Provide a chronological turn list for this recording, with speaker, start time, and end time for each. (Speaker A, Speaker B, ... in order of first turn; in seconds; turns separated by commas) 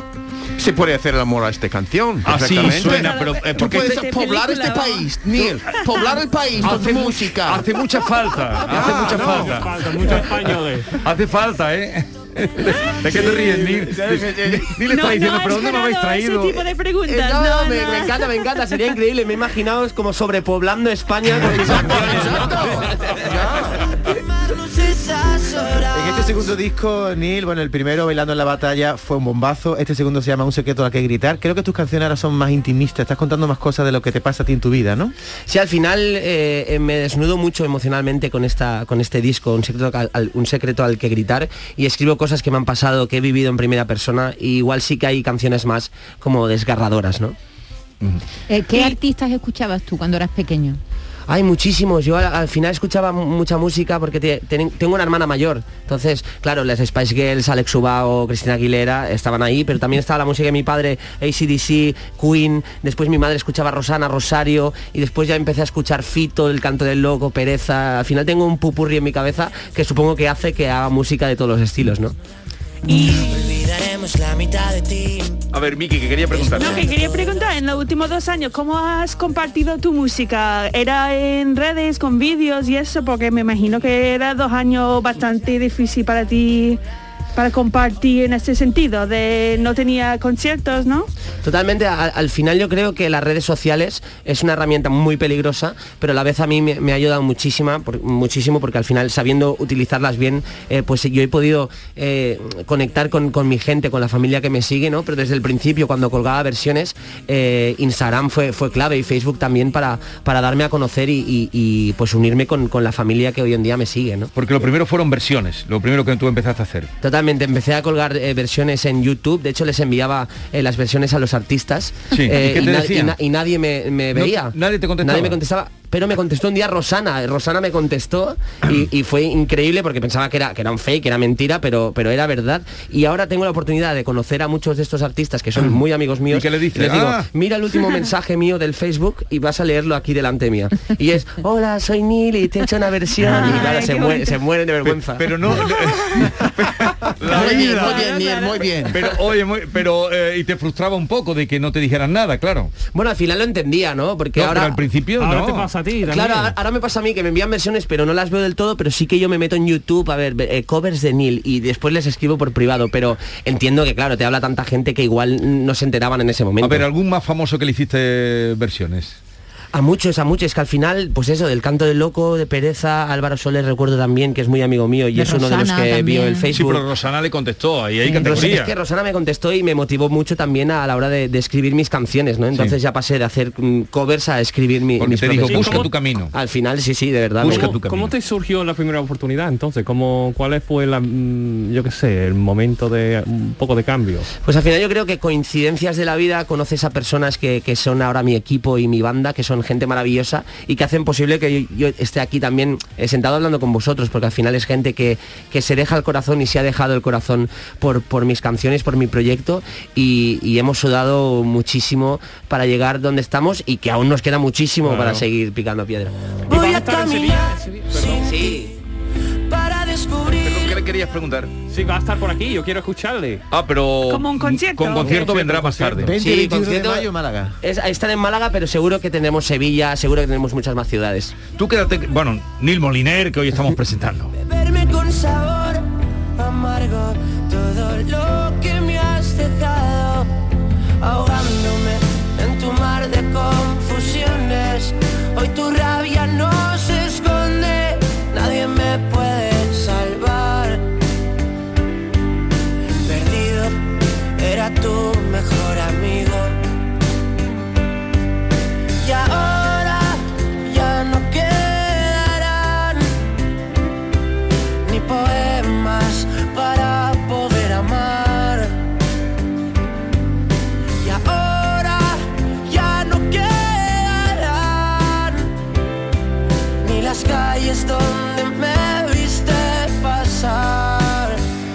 Speaker A: 0.6-7.7, Speaker B: 2.2-4.3, Speaker C: 2.6-5.2, Speaker C: 5.7-6.1, Speaker B: 6.6-9.8, Speaker A: 8.7-9.6, Speaker D: 8.9-10.9, Speaker B: 11.0-16.7, Speaker A: 13.1-14.7, Speaker C: 14.9-18.7, Speaker E: 17.1-23.1, Speaker A: 21.6-23.8, Speaker F: 23.8-26.5, Speaker G: 25.9-35.1, Speaker E: 35.5-47.4, Speaker H: 48.5-50.8, Speaker E: 51.3-72.2, Speaker C: 72.9-73.3, Speaker F: 72.9-75.4, Speaker B: 75.5-76.9, Speaker F: 76.3-77.3, Speaker C: 76.5-86.8, Speaker C: 87.4-91.1, Speaker E: 91.4-114.3, Speaker B: 114.3-116.9, Speaker E: 117.0-145.4, Speaker B: 122.1-123.2, Speaker B: 124.1-125.4, Speaker B: 136.3-137.3, Speaker C: 143.2-144.4, Speaker B: 144.8-148.1, Speaker C: 145.6-146.3, Speaker A: 147.2-149.0, Speaker C: 147.2-149.1, Speaker B: 148.9-152.7, Speaker E: 152.9-154.8, Speaker B: 154.3-155.7, Speaker D: 155.2-156.6, Speaker E: 156.1-166.9, Speaker B: 166.6-169.2, Speaker E: 169.7-176.9, Speaker H: 175.1-176.5, Speaker B: 176.5-178.7, Speaker H: 178.0-178.4, Speaker E: 178.2-187.7, Speaker B: 182.5-182.8, Speaker B: 185.0-186.3, Speaker D: 185.5-185.9, Speaker B: 187.4-188.1, Speaker D: 187.4-194.3, Speaker E: 194.4-216.2, Speaker B: 214.9-215.2, Speaker F: 216.5-218.8, Speaker D: 216.5-218.3, Speaker E: 218.3-218.7, Speaker F: 219.5-220.8, Speaker B: 220.4-221.5, Speaker D: 221.7-223.4, Speaker B: 223.5-226.2, Speaker C: 224.1-225.3, Speaker D: 225.0-226.2, Speaker G: 226.0-227.6, Speaker E: 226.2-227.1, Speaker E: 227.6-231.3, Speaker B: 231.6-234.3, Speaker F: 234.3-235.8, Speaker F: 236.4-240.3, Speaker F: 241.0-250.9, Speaker F: 253.0-253.8, Speaker F: 254.4-256.6, Speaker F: 259.0-263.2, Speaker F: 264.9-268.8, Speaker F: 271.0-275.5, Speaker F: 276.8-281.4